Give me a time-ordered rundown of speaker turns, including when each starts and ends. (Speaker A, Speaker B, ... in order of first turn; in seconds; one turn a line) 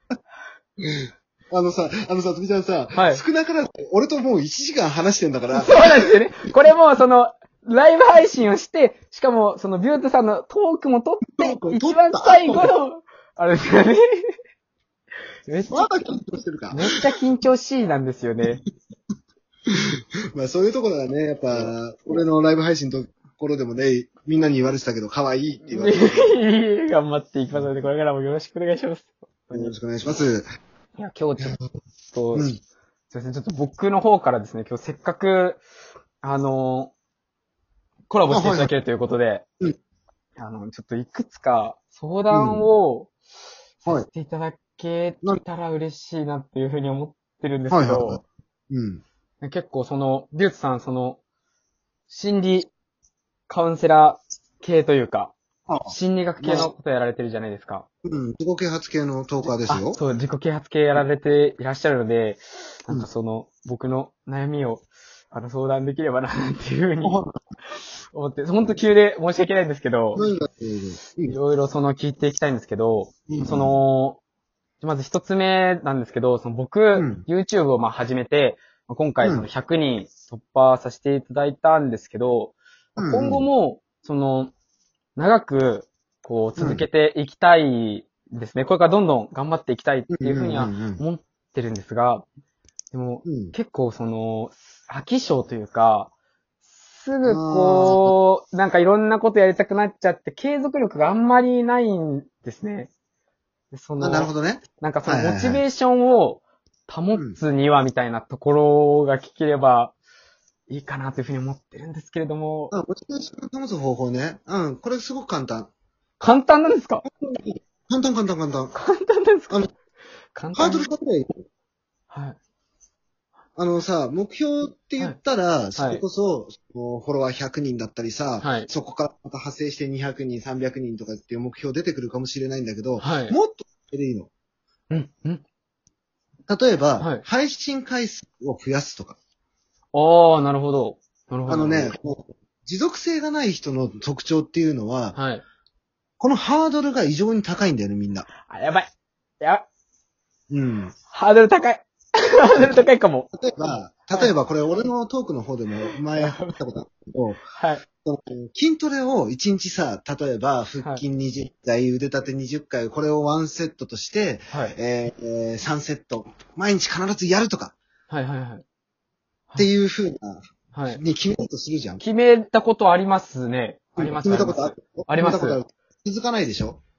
Speaker A: 0.8-6.1
Speaker B: 2.9-3.2
Speaker B: 5.5-14.3
Speaker A: 11.3-12.7
Speaker B: 15.5-15.9
Speaker A: 15.7-17.0
Speaker B: 16.7-18.6
Speaker A: 19.7-26.4
Speaker B: 25.7-29.8
Speaker A: 29.5-30.5
Speaker B: 31.0-31.6
Speaker B: 32.1-32.5
Speaker A: 32.3-32.6
Speaker B: 33.1-35.6
Speaker B: 36.2-36.9
Speaker B: 38.1-39.4
Speaker A: 38.3-38.7
Speaker B: 40.4-43.1
Speaker A: 42.3-42.7
Speaker B: 43.8-48.2
Speaker A: 47.7-49.0
Speaker B: 49.4-51.2
Speaker B: 52.1-52.7
Speaker B: 53.5-55.3
Speaker A: 55.7-56.7
Speaker B: 55.9-57.9
Speaker A: 58.0-60.0
Speaker B: 59.7-67.2
Speaker A: 67.0-67.4
Speaker B: 68.1-70.2
Speaker A: 70.2-71.4
Speaker B: 71.3-74.2
Speaker A: 73.3-73.8
Speaker B: 74.8-84.5
Speaker A: 77.0-77.2
Speaker A: 79.2-79.5
Speaker A: 83.0-83.5
Speaker B: 85.2-92.2
Speaker A: 86.6-86.8
Speaker A: 90.1-91.0
Speaker B: 92.9-96.1
Speaker A: 93.3-93.5
Speaker B: 96.8-102.9
Speaker A: 97.2-98.1
Speaker B: 103.7-109.9
Speaker A: 104.0-105.6
Speaker A: 107.1-107.4
Speaker B: 110.7-112.7
Speaker A: 112.7-115.7
Speaker B: 116.2-117.0
Speaker A: 117.0-118.7
Speaker B: 118.7-119.6
Speaker B: 120.3-120.9
Speaker A: 120.5-121.4
Speaker B: 122.1-122.4
Speaker A: 123.6-134.3
Speaker B: 125.8-126.0
Speaker B: 128.4-128.7
Speaker B: 133.0-133.4
Speaker B: 134.9-135.4
Speaker A: 136.5-139.2
Speaker B: 137.0-137.2
Speaker B: 139.9-141.9
Speaker A: 141.5-145.2
Speaker B: 145.1-145.4
Speaker A: 146.2-148.3
Speaker B: 148.5-148.9
Speaker A: 150.5-150.9
Speaker B: 151.1-153.3
Speaker A: 152.5-157.4
Speaker B: 156.1-156.6
Speaker B: 157.6-157.9
Speaker A: 158.1-167.8
Speaker B: 164.5-164.8
Speaker B: 168.1-168.6
Speaker A: 169.6-172.0
Speaker B: 170.7-171.0
Speaker B: 172.0-175.6
Speaker A: 174.0-176.8